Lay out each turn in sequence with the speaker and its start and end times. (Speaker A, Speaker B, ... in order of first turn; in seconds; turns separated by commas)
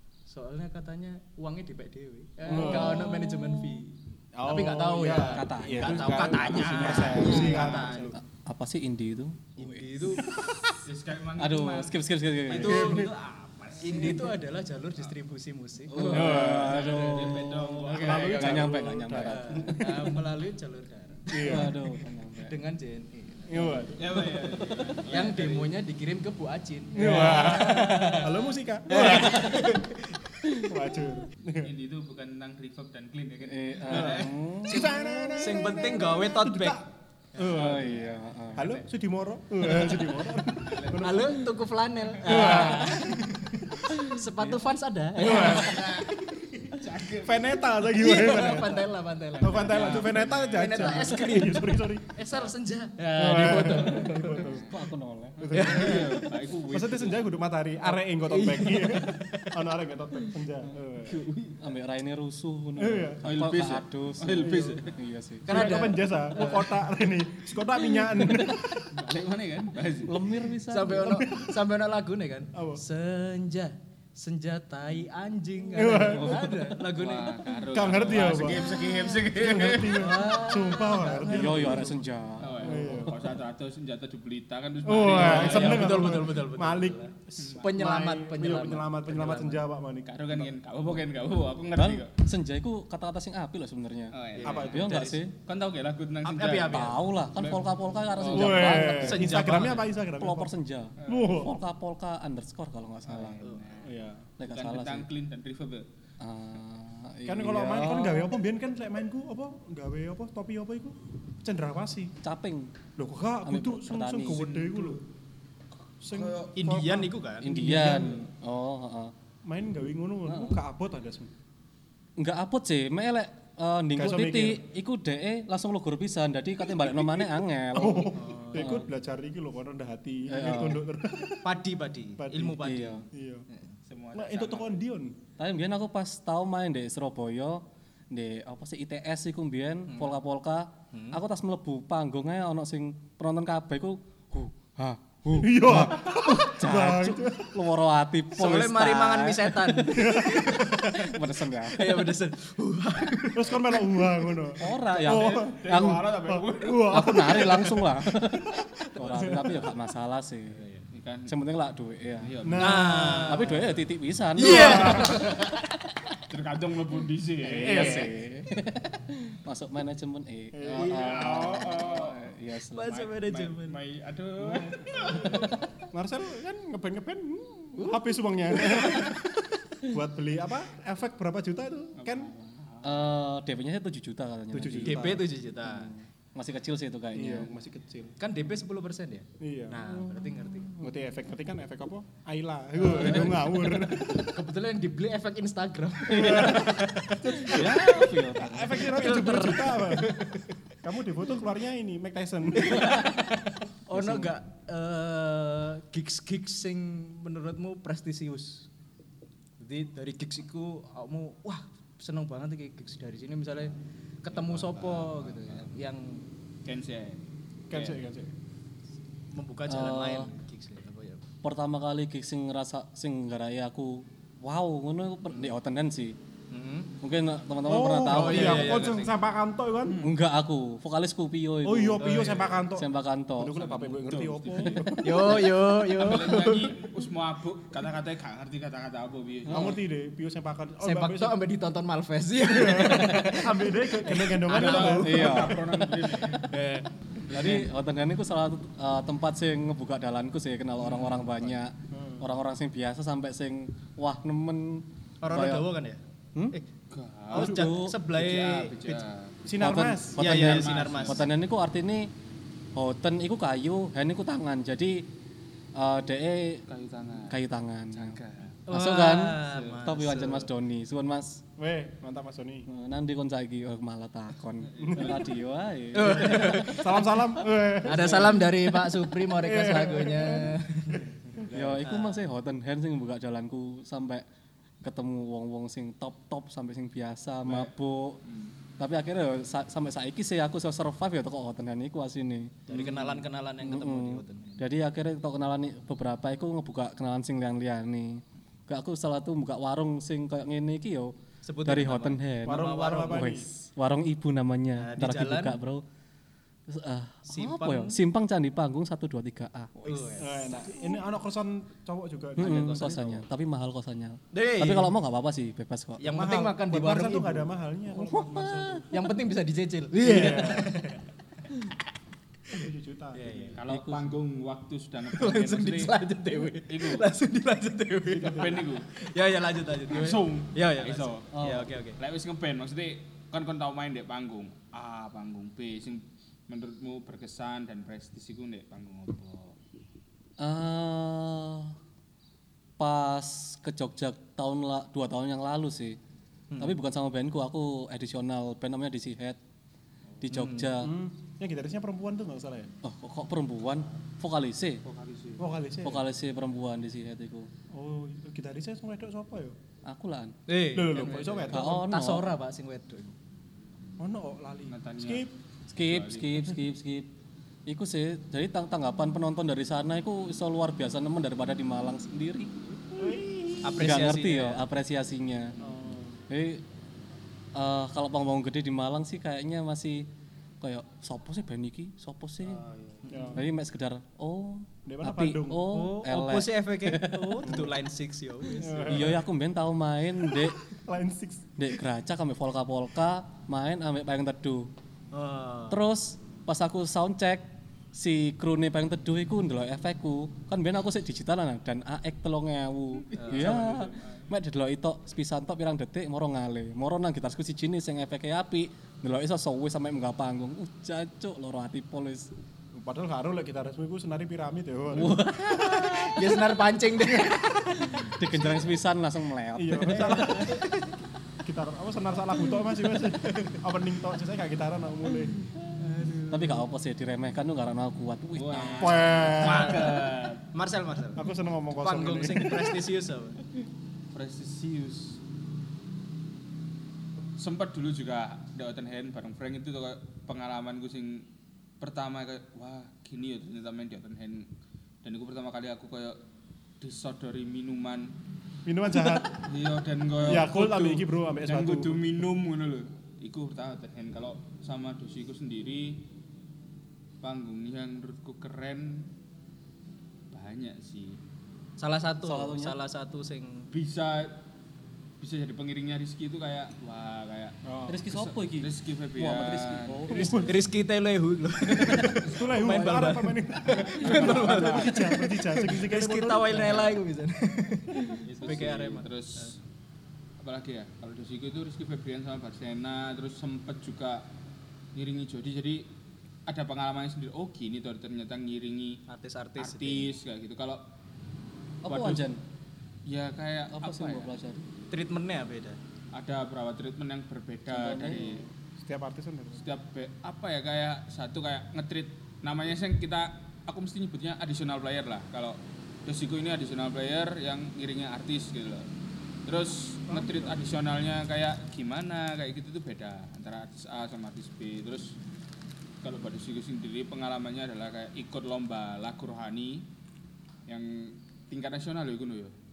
Speaker A: 0.3-8.1, Speaker B: 2.5-3.8, Speaker C: 2.5-3.1, Speaker C: 4.3-8.2, Speaker B: 5.2-10.5, Speaker D: 6.2-8.1, Speaker A: 9.6-10.3, Speaker C: 10.2-10.7, Speaker D: 10.8-12.0, Speaker B: 11.4-13.1, Speaker A: 12.5-13.2, Speaker D: 12.5-14.3, Speaker C: 12.6-13.1, Speaker A: 13.8-21.7, Speaker B: 15.9-20.1, Speaker D: 15.9-18.8, Speaker C: 16.0-16.7, Speaker C: 17.9-20.2, Speaker C: 21.3-21.8, Speaker B: 21.4-22.6, Speaker A: 22.4-23.8, Speaker C: 23.5-24.4, Speaker D: 24.0-25.8, Speaker B: 24.7-25.0, Speaker A: 25.1-30.2, Speaker C: 26.9-29.8, Speaker B: 27.0-27.6, Speaker B: 29.1-29.6, Speaker B: 30.4-30.8, Speaker C: 30.5-31.7, Speaker D: 31.6-34.4, Speaker B: 33.4-35.3, Speaker C: 33.9-37.9, Speaker A: 34.7-36.8, Speaker A: 37.3-37.9, Speaker B: 37.4-38.7, Speaker D: 37.7-38.0, Speaker C: 38.5-41.4, Speaker A: 38.5-38.8, Speaker A: 39.7-40.1, Speaker D: 40.6-41.2, Speaker A: 40.9-46.1, Speaker C: 42.2-43.2, Speaker C: 45.2-46.1, Speaker D: 45.2-47.6, Speaker C: 47.1-52.1, Speaker A: 47.8-54.5, Speaker D: 49.5-51.1, Speaker C: 53.1-54.7, Speaker B: 54.5-55.5, Speaker C: 55.4-61.2, Speaker D: 55.4-57.4, Speaker A: 55.5-56.3, Speaker A: 57.8-59.6, Speaker B: 61.6-65.8, Speaker C: 62.8-63.2, Speaker D: 63.2-65.0, Speaker C: 64.4-64.7, Speaker A: 65.5-66.9, Speaker C: 65.5-68.9, Speaker B: 68.2-68.5, Speaker D: 68.9-70.3, Speaker B: 70.0-71.2, Speaker A: 70.7-77.4, Speaker C: 71.0-71.5, Speaker C: 72.5-72.8, Speaker C: 75.7-76.5, Speaker B: 76.2-76.5, Speaker D: 76.9-80.3, Speaker C: 77.7-82.0, Speaker A: 78.0-79.2, Speaker A: 79.9-82.0, Speaker B: 81.3-83.2, Speaker D: 82.4-86.2, Speaker C: 82.6-83.2, Speaker C: 84.8-90.5, Speaker A: 85.0-89.7, Speaker D: 87.4-87.7, Speaker D: 90.1-92.1, Speaker B: 91.7-95.3, Speaker D: 94.1-94.8, Speaker A: 94.3-95.3, Speaker C: 94.4-94.9, Speaker D: 95.4-98.8, Speaker A: 96.2-97.1, Speaker B: 96.7-103.4, Speaker C: 98.3-100.5, Speaker A: 98.6-99.9, Speaker D: 101.0-101.4, Speaker C: 101.1-101.5, Speaker D: 103.1-103.9, Speaker C: 103.8-104.3, Speaker B: 104.4-105.1, Speaker D: 104.5-105.8, Speaker B: 106.2-108.3, Speaker C: 107.2-112.1, Speaker B: 112.2-112.7, Speaker C: 113.0-115.0, Speaker B: 113.4-114.5, Speaker D: 114.3-115.0, Speaker C: 116.0-118.2, Speaker D: 116.1-116.5, Speaker A: 116.5-117.8, Speaker B: 117.4-119.1, Speaker C: 119.4-121.3, Speaker B: 120.2-120.6, Speaker B: 122.2-128.9, Speaker C: 124.0-124.6, Speaker C: 126.8-131.6, Speaker A: 128.1-128.8, Speaker B: 130.3-130.8, Speaker A: 131.4-133.8, Speaker C: 132.2-133.4, Speaker B: 132.6-133.1, Speaker D: 133.9-134.8, Speaker C: 134.1-135.2, Speaker B: 135.4-152.1, Speaker A: 139.9-140.2, Speaker A: 140.9-141.2, Speaker C: 145.3-147.5, Speaker A: 148.3-154.4, Speaker C: 149.9-150.9, Speaker C: 153.3-159.7, Speaker B: 154.6-156.1, Speaker D: 154.8-157.3, Speaker B: 156.9-160.6, Speaker A: 160.6-160.8, Speaker D: 160.9-161.3, Speaker B: 161.3-162.3, Speaker D: 162.2-162.9, Speaker C: 162.4-163.5, Speaker A: 162.6-163.7, Speaker B: 163.2-165.2, Speaker A: 164.3-165.6, Speaker C: 164.4-165.2, Speaker D: 166.2-168.1, Speaker B: 167.4-173.0, Speaker C: 167.6-168.0, Speaker C: 170.5-171.7, Speaker D: 170.7-172.2, Speaker A: 172.7-173.8, Speaker D: 172.9-175.5, Speaker C: 174.4-182.3, Speaker D: 181.9-183.1, Speaker B: 182.8-187.5, Speaker C: 184.5-185.3, Speaker A: 184.8-185.9, Speaker C: 187.1-188.2, Speaker A: 188.2-190.7, Speaker C: 189.4-189.9, Speaker B: 189.9-190.9, Speaker C: 190.8-194.4, Speaker A: 192.8-197.8, Speaker B: 196.1-196.8, Speaker C: 196.1-203.1, Speaker B: 197.4-199.2, Speaker A: 198.7-200.6, Speaker A: 202.6-208.7, Speaker B: 203.9-204.3, Speaker A: 209.6-216.3, Speaker D: 214.3-215.8, Speaker D: 216.6-218.0, Speaker C: 217.7-218.3, Speaker A: 219.3-221.3, Speaker B: 219.7-220.3, Speaker B: 221.4-226.2, Speaker A: 226.5-226.9, Speaker B: 227.0-228.9, Speaker C: 227.6-230.0, Speaker A: 228.1-229.1, Speaker D: 229.8-230.2, Speaker B: 230.0-232.2, Speaker C: 231.6-235.4, Speaker A: 232.0-232.6, Speaker B: 232.7-233.6, Speaker D: 233.5-239.8, Speaker A: 235.0-236.8, Speaker B: 239.5-239.8, Speaker C: 239.5-241.4, Speaker A: 240.8-245.5, Speaker C: 242.4-245.6, Speaker D: 244.5-246.5, Speaker B: 245.0-246.0, Speaker A: 246.3-246.9, Speaker D: 247.3-247.7, Speaker B: 247.3-255.7, Speaker D: 250.8-251.6, Speaker C: 251.9-252.3, Speaker A: 255.2-256.6, Speaker D: 256.9-259.4, Speaker B: 257.3-258.0, Speaker A: 257.3-259.0, Speaker C: 259.4-260.7, Speaker B: 259.6-262.1, Speaker A: 260.2-261.3, Speaker D: 260.4-261.2, Speaker B: 262.7-265.1, Speaker B: 265.7-266.6, Speaker D: 266.7-268.6, Speaker B: 267.1-271.4, Speaker A: 268.7-270.5, Speaker D: 269.5-269.8, Speaker C: 271.6-272.7, Speaker B: 272.6-276.8, Speaker D: 274.8-275.3, Speaker C: 274.8-275.2, Speaker A: 275.9-277.1, Speaker C: 276.0-278.5, Speaker A: 277.8-282.2, Speaker C: 279.2-280.6, Speaker C: 281.3-281.9, Speaker B: 281.5-284.2, Speaker B: 284.8-288.2, Speaker D: 287.4-287.7, Speaker D: 288.2-288.5, Speaker B: 288.8-301.1, Speaker A: 292.7-294.7, Speaker A: 301.4-303.4, Speaker B: 301.6-305.8, Speaker C: 302.4-303.5, Speaker A: 304.8-305.6, Speaker B: 306.7-309.9, Speaker A: 307.2-308.0, Speaker A: 309.8-311.0, Speaker C: 310.1-313.1, Speaker A: 312.4-313.2, Speaker B: 312.4-316.1, Speaker A: 314.3-314.9, Speaker A: 316.0-317.5, Speaker C: 316.0-318.9, Speaker B: 317.9-318.9, Speaker A: 318.9-321.0, Speaker C: 319.9-320.8, Speaker C: 322.5-323.5, Speaker A: 322.5-323.6, Speaker D: 323.6-326.0, Speaker B: 323.7-324.1, Speaker A: 325.1-332.0, Speaker D: 326.7-327.1, Speaker C: 328.1-328.7, Speaker D: 328.1-328.9, Speaker D: 329.9-331.3, Speaker B: 331.3-331.7, Speaker D: 332.0-339.6, Speaker B: 340.4-341.8, Speaker B: 342.8-346.0, Speaker A: 346.5-346.8, Speaker B: 346.6-349.4, Speaker B: 350.2-350.9, Speaker A: 350.3-350.7, Speaker C: 350.8-352.7, Speaker B: 352.8-354.8, Speaker D: 354.8-355.5, Speaker C: 355.4-356.0, Speaker B: 355.8-357.5, Speaker C: 357.7-359.6, Speaker B: 359.8-360.4, Speaker A: 360.5-363.1, Speaker C: 360.7-361.8, Speaker B: 361.5-362.3, Speaker C: 364.0-365.3, Speaker D: 364.7-366.6, Speaker B: 365.7-367.1, Speaker B: 367.6-373.1, Speaker C: 372.9-373.8, Speaker A: 373.6-374.6, Speaker B: 373.7-375.6, Speaker C: 375.6-376.2, Speaker B: 376.3-376.6, Speaker B: 377.5-380.1, Speaker B: 380.6-382.6, Speaker A: 382.7-383.4, Speaker C: 383.0-383.4, Speaker B: 383.3-387.7, Speaker C: 384.8-385.7, Speaker A: 385.7-389.2, Speaker C: 387.4-387.7, Speaker C: 388.5-389.2, Speaker B: 388.9-390.6, Speaker C: 390.3-391.7, Speaker B: 391.6-394.7, Speaker A: 395.1-395.8, Speaker B: 395.7-412.3, Speaker D: 403.0-404.3, Speaker A: 403.1-403.6, Speaker C: 412.7-415.3, Speaker B: 414.9-416.3, Speaker A: 415.6-418.1, Speaker B: 417.9-420.6, Speaker C: 419.6-420.7, Speaker A: 420.4-420.7, Speaker C: 421.4-425.3, Speaker A: 423.2-423.5, Speaker A: 425.8-426.7, Speaker B: 426.3-429.3, Speaker D: 428.3-430.4, Speaker C: 428.8-430.0, Speaker A: 429.4-433.4, Speaker C: 431.1-432.8, Speaker D: 434.1-435.2, Speaker D: 437.4-441.3, Speaker D: 441.8-444.5, Speaker D: 445.0-446.2, Speaker D: 446.8-448.1, Speaker C: 448.6-449.4, Speaker D: 449.3-456.0, Speaker C: 450.2-452.2, Speaker D: 457.2-459.1, Speaker D: 460.3-461.2, Speaker A: 461.8-463.7, Speaker B: 462.2-462.8, Speaker D: 463.7-464.4, Speaker D: 465.2-470.1, Speaker C: 467.6-468.0, Speaker B: 467.9-470.5, Speaker A: 470.1-479.5, Speaker C: 470.1-470.4, Speaker C: 472.2-476.9, Speaker D: 472.2-472.5, Speaker D: 473.7-475.1, Speaker D: 478.3-479.6, Speaker D: 480.4-484.3, Speaker D: 484.9-485.9, Speaker D: 486.5-489.0, Speaker A: 489.1-490.1, Speaker D: 489.6-490.9, Speaker B: 491.8-492.4, Speaker D: 491.9-492.3, Speaker D: 493.1-494.3, Speaker B: 493.7-494.6, Speaker A: 494.9-495.8, Speaker D: 496.1-498.4, Speaker B: 497.7-498.5, Speaker C: 498.8-499.6, Speaker D: 499.6-508.9, Speaker D: 509.4-515.2, Speaker C: 510.1-510.4, Speaker D: 516.0-519.9, Speaker D: 520.7-522.5